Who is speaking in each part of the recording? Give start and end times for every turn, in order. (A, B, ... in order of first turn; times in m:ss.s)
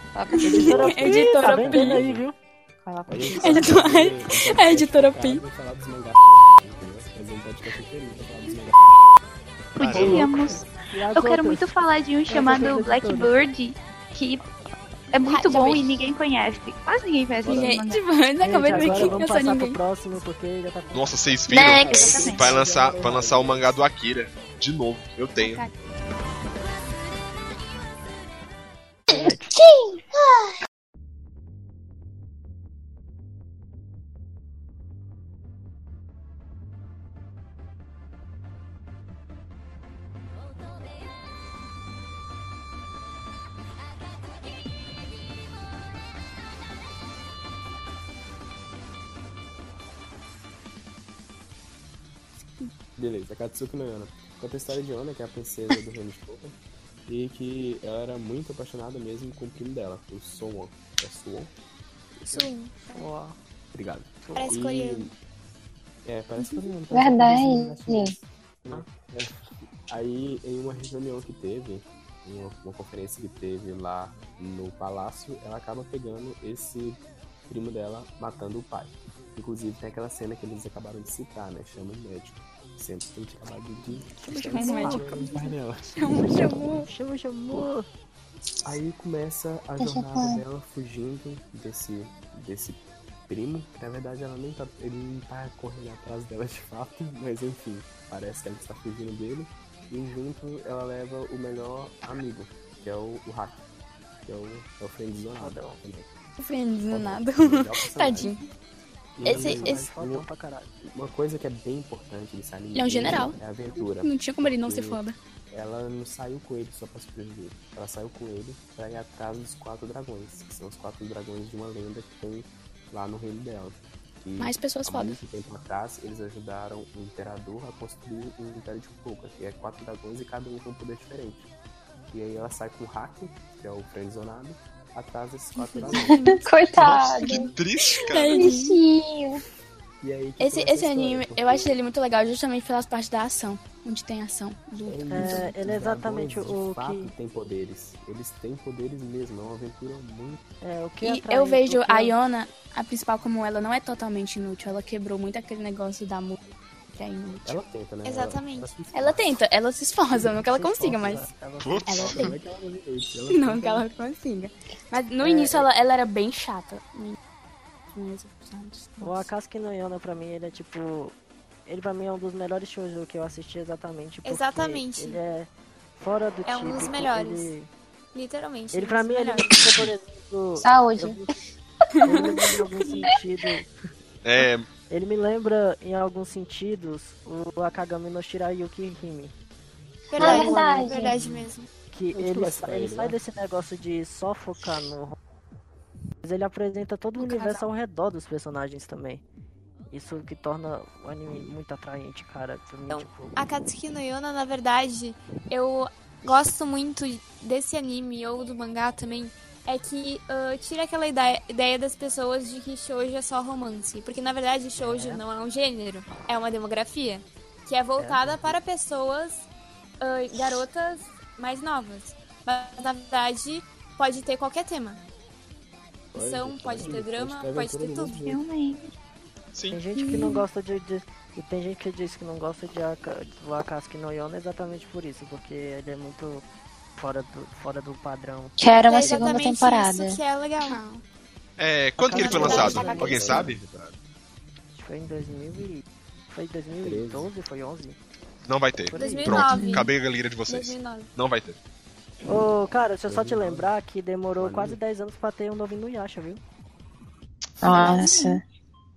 0:00.1-0:00.8 A
0:00.3-0:02.0 B
0:00.4-0:02.4 C
0:00.7-0:02.2 D
0:02.8-0:03.8 A
0:03.1-0:08.8 D
0:03.4-0:05.4 B
0:09.8-0:14.5 E
0:09.8-0:10.3 F
0:09.8-0:10.6 D
0:09.9-0:11.7 C
0:12.3-0:13.4 C
0:15.1-0:18.0 E
0:15.2-0:16.1 B
0:16.4-0:16.6 D
0:17.4-0:17.8 D
0:17.4-0:19.8 B
0:18.4-0:21.3 C
0:18.7-0:19.2 D
0:20.9-0:25.6 F
0:21.5-0:22.4 A
0:21.7-0:23.8 D
0:21.8-0:22.6 E
0:25.4-0:25.8 E
0:29.1-0:29.5 C
0:29.1-0:30.5 A
0:53.0-0:56.6 D
0:57.1-1:01.5 D
1:02.2-1:02.5 D
1:02.3-1:03.4 C
1:02.5-1:03.1 G
1:03.7-1:05.1 D
1:04.2-1:04.5 C
1:04.4-1:05.1 G
1:06.0-1:26.0 D
1:06.9-1:08.2 A
1:24.2-1:25.3 C
1:24.5-1:26.9 B
1:26.7-1:27.9 C
1:28.6-1:43.6 D
1:29.8-1:30.4 A
1:44.3-1:46.1 D
1:45.4-1:45.8 C
1:46.4-1:48.4 B
1:46.9-1:48.3 D
1:49.2-1:50.3 D
1:49.2-1:49.8 B
1:49.2-1:50.7 C
1:50.8-2:11.5 D
1:52.7-1:55.2 B
2:04.4-2:05.2 B
2:12.1-2:17.3 D
2:15.7-2:16.3 B
2:16.0-2:17.5 A
2:17.2-2:18.8 B
2:17.5-2:18.6 F
2:18.3-2:19.4 A
2:20.0-2:21.8 D
2:20.4-2:25.5 B
2:24.8-2:30.4 D
2:25.1-2:27.1 C
2:30.6-2:32.2 C
2:31.0-2:36.4 B
2:36.9-2:37.6 B
2:37.4-2:39.4 D
2:38.0-2:38.8 G
2:38.9-2:41.3 B
2:40.2-2:42.3 C
2:41.6-2:42.1 F
2:41.9-2:42.3 B
2:41.9-2:43.9 D
2:43.3-2:47.2 B
2:45.2-2:45.7 C
2:47.9-2:49.3 B
2:49.0-2:51.2 C
2:51.7-2:57.7 C
2:54.2-2:55.2 G
2:56.5-2:57.6 G
2:58.1-2:59.6 G
2:58.7-3:01.3 C
3:00.6-3:01.3 A
3:02.0-3:02.9 B
3:02.0-3:03.7 C
3:04.2-3:04.7 F
3:04.9-3:09.3 C
3:10.1-3:11.7 G
3:10.2-3:11.3 A
3:10.2-3:10.6 D
3:10.2-3:10.5 C
3:11.9-3:15.2 C
3:12.1-3:13.2 D
3:16.2-3:19.2 C
3:19.9-3:23.4 C
3:22.9-3:39.5 G
3:34.8-3:35.2 C
3:38.3-3:38.6 D
3:40.0-3:45.0 G
3:46.1-3:48.4 D
3:46.2-3:48.2 G
3:48.2-3:48.9 E
3:49.5-3:49.8 F
3:49.7-3:56.4 C
3:50.0-3:50.4 B
3:57.0-3:59.2 C
3:58.6-4:00.2 A
3:58.8-4:00.8 G
4:00.6-4:01.0 B
4:01.6-4:03.6 F
4:02.0-4:03.3 C
4:02.2-4:03.4 G
4:02.2-4:04.0 D
4:04.7-4:08.0 C
4:06.8-4:07.3 D
4:08.5-4:11.6 F
4:08.9-4:09.6 C
4:09.0-4:09.9 G
4:10.5-4:11.1 G
4:12.3-4:16.4 C
4:13.0-4:13.8 D
4:14.4-4:14.8 D
4:17.6-4:18.4 A
4:17.7-4:18.4 E